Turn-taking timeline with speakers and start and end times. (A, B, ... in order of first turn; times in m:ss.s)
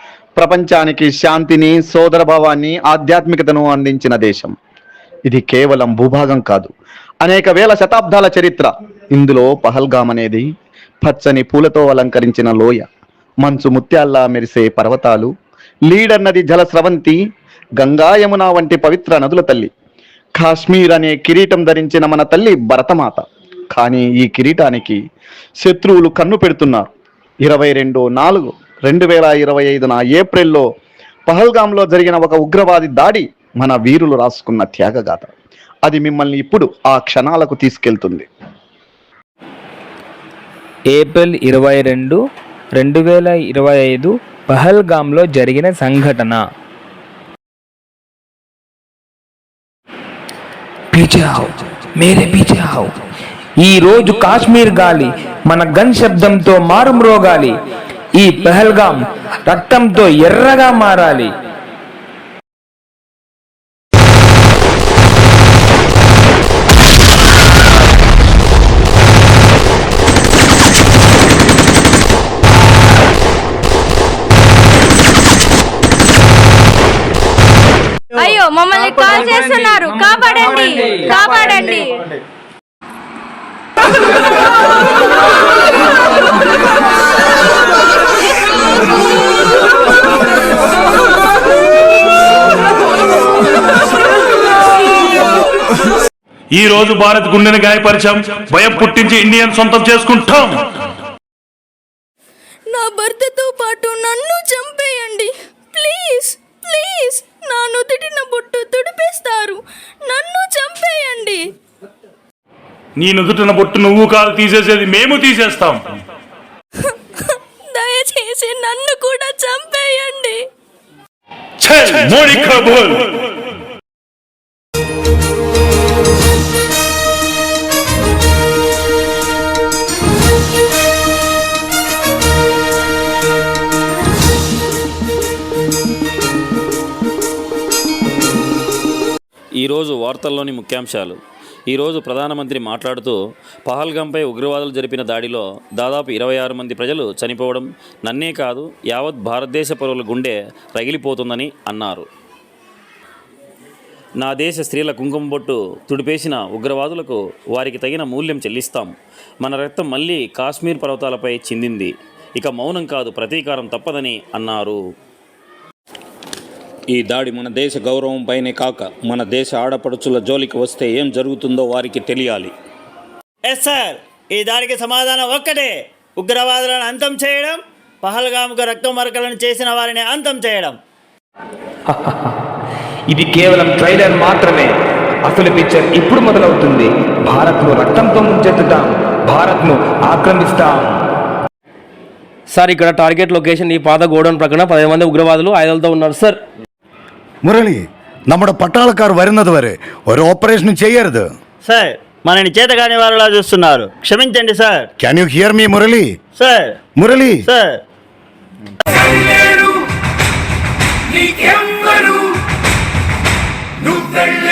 0:00.4-0:04.5 A
0:05.3-0:10.5 A
0:11.0-0:12.8 A
0:13.4-0:15.3 A
0:15.9-0:17.2 A
0:17.8-0:19.7 A
0:20.4-0:25.0 A
0:25.6-0:26.9 A
0:27.4-0:30.6 A
0:31.3-0:35.3 A
0:35.8-0:38.3 A
0:40.9-0:42.2 B
0:42.8-0:46.4 B
0:50.9-0:52.9 B
0:53.6-0:57.6 B
0:58.2-1:01.3 B
1:18.2-1:22.0 C
1:36.5-1:40.6 D
1:42.7-1:51.5 C
1:53.0-1:55.8 D
1:57.2-2:00.4 C
2:01.6-2:03.1 D
2:19.6-2:23.2 E
2:23.7-2:32.1 E
2:34.2-2:44.8 E
2:46.9-2:52.5 F
2:53.5-3:00.8 G
3:03.1-3:04.7 B
3:05.3-3:11.0 B
3:12.5-3:16.4 H
3:17.5-3:17.8 I
3:18.3-3:21.2 I
3:21.6-3:24.9 G
3:25.1-3:26.1 I
3:26.4-3:26.8 G
3:27.0-3:27.3 I
3:27.4-3:27.8 G